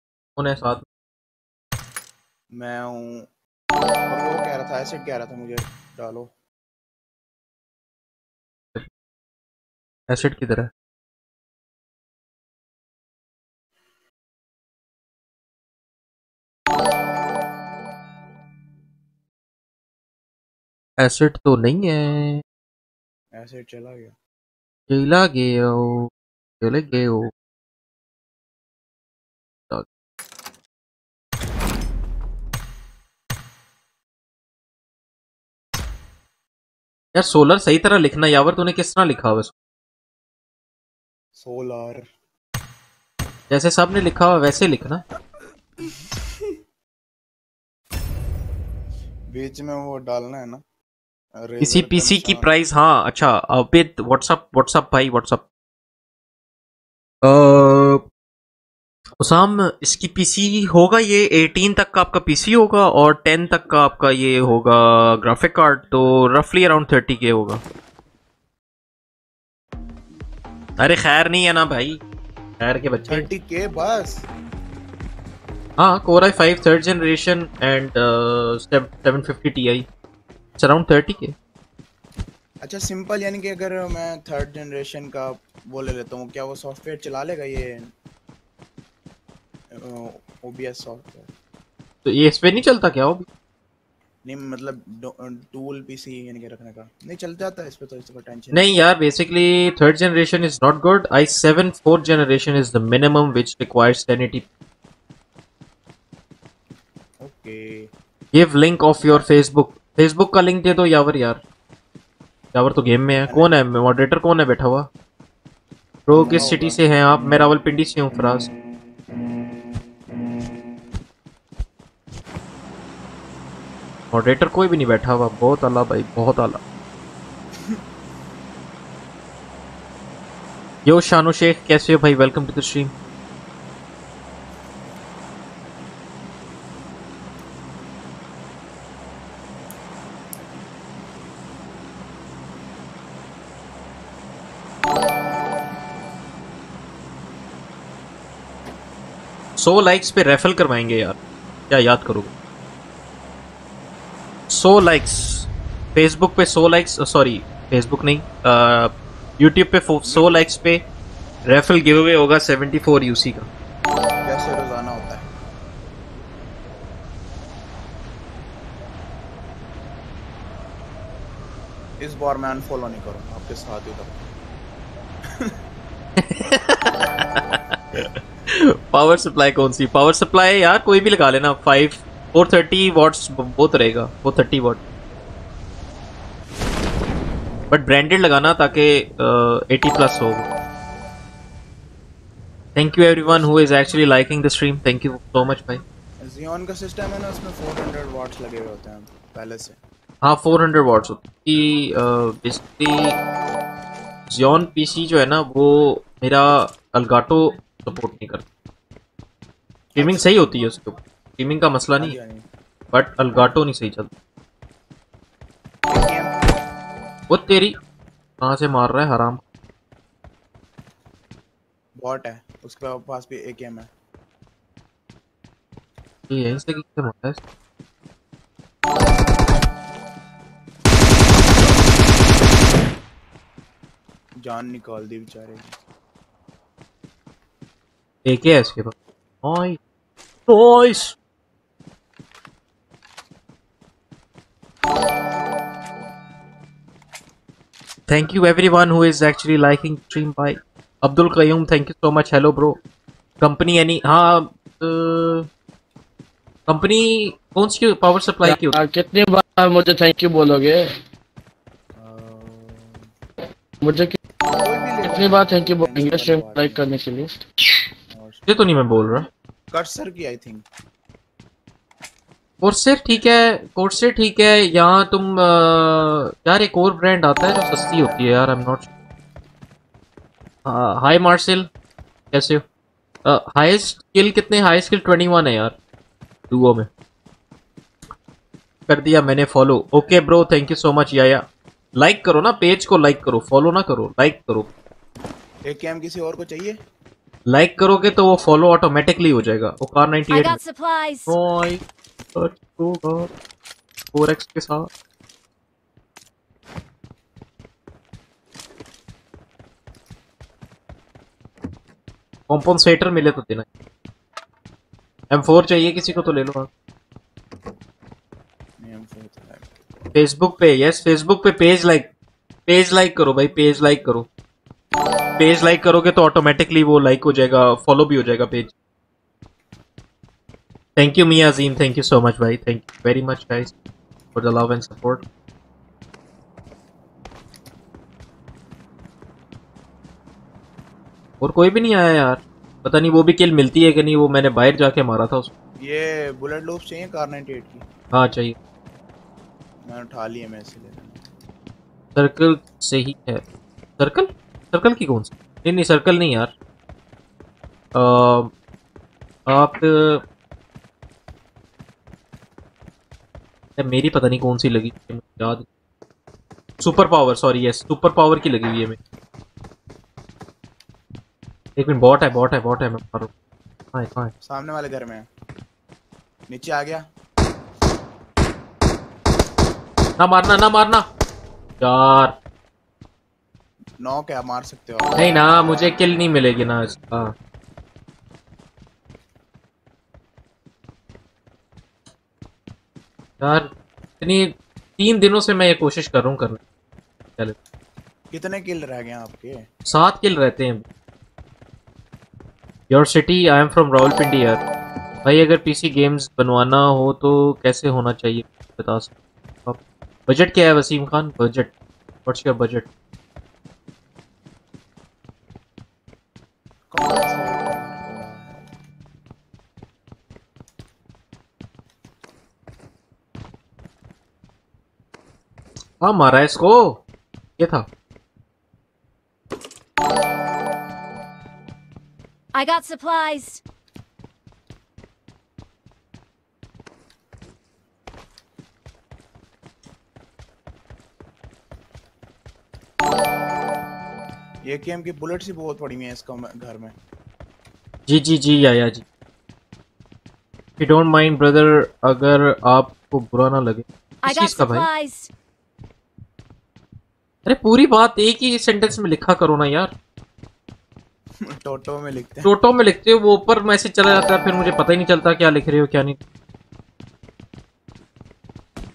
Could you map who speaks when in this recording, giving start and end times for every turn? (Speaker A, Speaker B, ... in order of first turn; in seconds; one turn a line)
Speaker A: 0.3-0.8
Speaker B: 2.5-3.3
Speaker B: 4.1-6.3
Speaker A: 10.1-10.7
Speaker A: 21.0-22.4
Speaker B: 23.3-24.1
Speaker A: 24.9-26.1
Speaker A: 26.6-27.3
Speaker A: 37.1-39.5
Speaker B: 41.4-42.0
Speaker A: 43.5-45.0
Speaker B: 49.3-50.6
Speaker B: 51.4-52.5
Speaker A: 51.6-55.4
Speaker A: 57.2-58.0
Speaker A: 59.2-67.6
Speaker A: 70.8-72.0
Speaker A: 72.6-73.3
Speaker B: 73.1-74.2
Speaker A: 75.8-79.8
Speaker A: 80.6-81.3
Speaker B: 82.6-87.9
Speaker B: 89.8-91.3
Speaker A: 92.0-93.2
Speaker B: 94.2-98.7
Speaker A: 98.5-104.4
Speaker B: 107.2-107.9
Speaker A: 108.3-111.4
Speaker B: 109.0-109.3
Speaker A: 112.5-114.9
Speaker B: 113.3-113.5
Speaker A: 116.1-118.5
Speaker B: 116.1-116.8
Speaker A: 124.1-126.6
Speaker A: 130.8-132.9
Speaker A: 149.6-151.2
Speaker A: 151.7-152.3
Speaker A: 154.5-160.8
Speaker B: 160.0-160.4
Speaker A: 161.5-163.5
Speaker B: 164.2-165.2
Speaker B: 172.0-174.2
Speaker A: 176.2-184.8
Speaker A: 187.7-190.5
Speaker A: 192.7-195.8
Speaker B: 193.2-193.5
Speaker B: 196.2-199.8
Speaker A: 200.2-203.2
Speaker A: 204.3-208.4
Speaker B: 209.9-210.3
Speaker A: 210.0-212.1
Speaker B: 211.9-212.4
Speaker A: 212.9-214.1
Speaker B: 215.9-216.3
Speaker A: 217.3-217.8
Speaker A: 218.4-219.4
Speaker B: 222.0-223.9
Speaker A: 226.3-227.4
Speaker B: 234.4-235.7
Speaker A: 238.2-239.8
Speaker A: 240.5-241.1
Speaker A: 248.1-252.8
Speaker A: 253.4-255.5
Speaker A: 256.7-258.8
Speaker C: 258.4-260.8
Speaker B: 262.0-263.1
Speaker C: 263.8-264.1
Speaker B: 264.5-266.8
Speaker C: 265.0-267.4
Speaker B: 268.1-268.4
Speaker A: 268.5-269.3
Speaker B: 269.7-270.6
Speaker A: 272.6-278.9
Speaker A: 280.6-281.7
Speaker A: 282.3-282.6
Speaker A: 283.2-285.8
Speaker A: 286.5-286.9
Speaker A: 288.9-294.7
Speaker B: 295.6-296.8
Speaker A: 297.4-300.6
Speaker D: 300.3-301.3
Speaker A: 301.3-301.8
Speaker A: 302.3-303.3
Speaker A: 304.1-304.9
Speaker A: 312.5-313.6
Speaker A: 315.3-316.7
Speaker B: 318.8-319.7
Speaker A: 320.1-322.1
Speaker A: 322.6-324.3
Speaker A: 325.4-328.7
Speaker A: 330.9-333.7
Speaker A: 334.3-335.2
Speaker A: 341.4-345.5
Speaker B: 345.8-347.8
Speaker A: 348.1-348.6
Speaker B: 349.9-351.2
Speaker A: 352.1-353.4
Speaker A: 354.0-356.5
Speaker A: 357.9-358.5
Speaker A: 359.5-360.2
Speaker A: 363.8-365.6
Speaker A: 366.8-369.0
Speaker A: 371.8-373.3
Speaker A: 373.9-374.3
Speaker B: 374.4-375.2
Speaker B: 376.5-377.0
Speaker A: 380.2-381.1
Speaker A: 381.8-382.4
Speaker B: 384.0-386.0
Speaker A: 385.2-387.3
Speaker A: 393.4-396.6
Speaker B: 398.3-399.6
Speaker A: 399.9-400.8
Speaker A: 402.9-404.6
Speaker A: 405.2-409.1
Speaker A: 409.6-411.7
Speaker A: 412.2-412.9
Speaker B: 416.9-418.7
Speaker A: 426.0-427.0
Speaker A: 427.6-427.9
Speaker D: 432.5-433.6
Speaker B: 444.6-446.9
Speaker A: 448.1-449.0
Speaker A: 450.8-454.8
Speaker D: 454.2-455.3
Speaker A: 457.4-459.9
Speaker B: 461.4-462.5
Speaker A: 462.4-466.2